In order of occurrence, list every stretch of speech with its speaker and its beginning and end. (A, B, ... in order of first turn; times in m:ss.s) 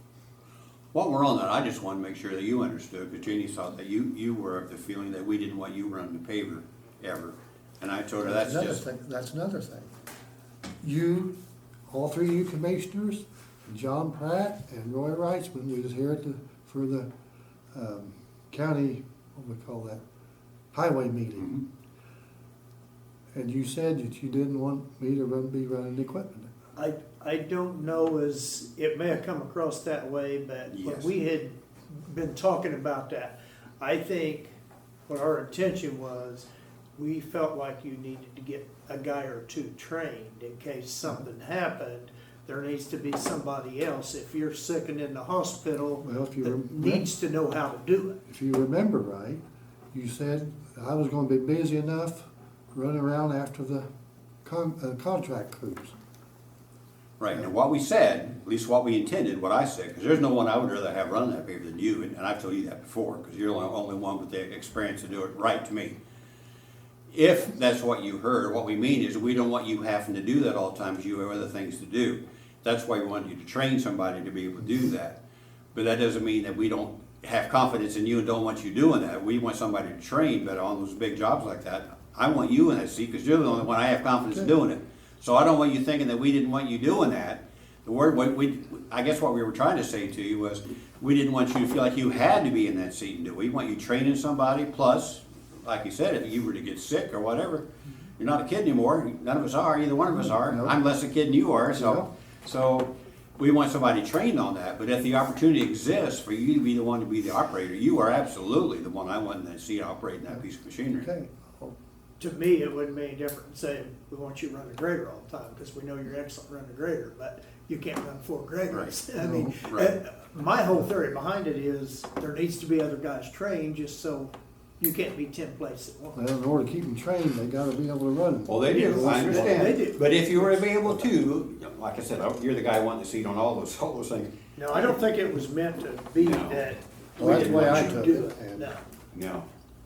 0:00.9-0:08.8 A
0:08.2-0:09.9 B
0:10.8-0:11.3 B
0:11.9-0:17.1 B
0:17.7-0:20.0 B
0:20.7-0:21.6 B
0:23.3-0:26.5 B
0:26.8-0:34.5 C
0:30.7-0:31.1 A
0:35.1-0:48.2 C
0:46.0-0:47.1 B
0:48.3-0:49.4 B
0:49.9-0:53.9 B
0:54.4-0:56.0 B
0:57.2-1:06.0 A
1:07.1-1:15.2 A
1:15.7-1:37.7 A
1:38.2-1:51.1 A
1:40.2-1:40.8 B
1:41.8-1:42.1 B
1:51.0-1:51.8 B
1:52.2-2:06.2 C
1:58.7-1:59.0 A
1:59.2-1:59.6 B
1:59.7-2:00.0 A
2:06.1-2:09.7 B
2:08.5-2:14.3 A
2:08.7-2:10.6 C
2:14.6-2:18.8 C
2:16.2-2:16.7 A
2:17.2-2:18.7 B
2:17.2-2:18.1 A
2:19.1-2:19.5 A